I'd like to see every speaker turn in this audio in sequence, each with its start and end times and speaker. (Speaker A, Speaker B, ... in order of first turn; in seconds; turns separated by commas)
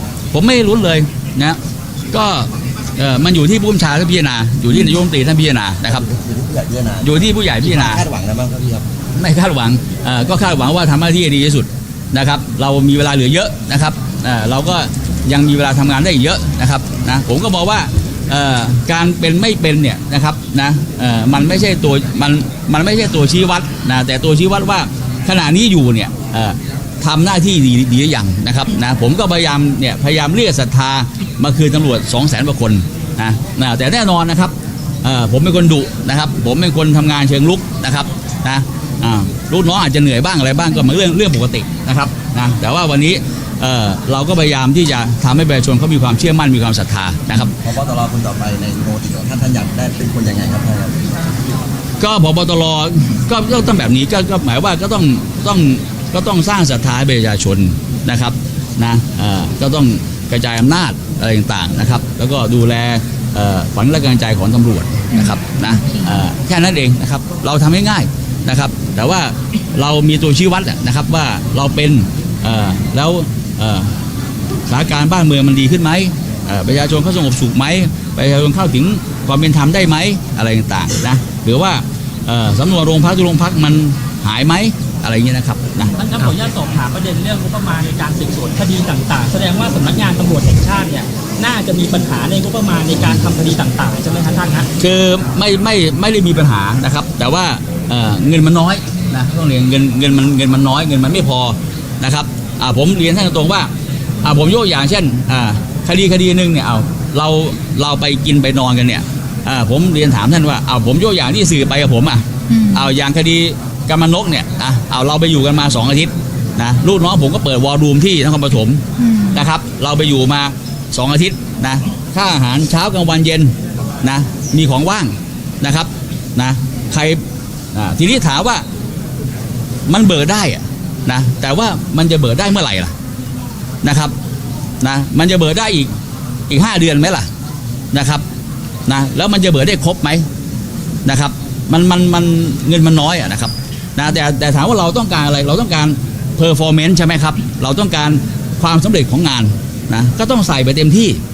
Speaker A: 0.3-1.6, Speaker A: 2.1-6.0, Speaker B: 5.8-8.9, Speaker A: 7.0-8.0, Speaker A: 9.2-47.5, Speaker B: 47.6-51.1, Speaker A: 52.0-73.9, Speaker C: 65.1-66.2, Speaker A: 74.7-86.3, Speaker D: 86.0-94.7, Speaker A: 94.8-103.7, Speaker A: 104.2-118.8, Speaker C: 112.5-112.9, Speaker C: 119.0-119.4, Speaker A: 119.3-127.2, Speaker A: 127.7-128.6, Speaker A: 129.9-132.9, Speaker A: 133.8-134.1, Speaker A: 134.8-135.9, Speaker A: 136.5-137.3, Speaker A: 137.9-138.2, Speaker A: 138.9-140.2, Speaker A: 141.0-151.2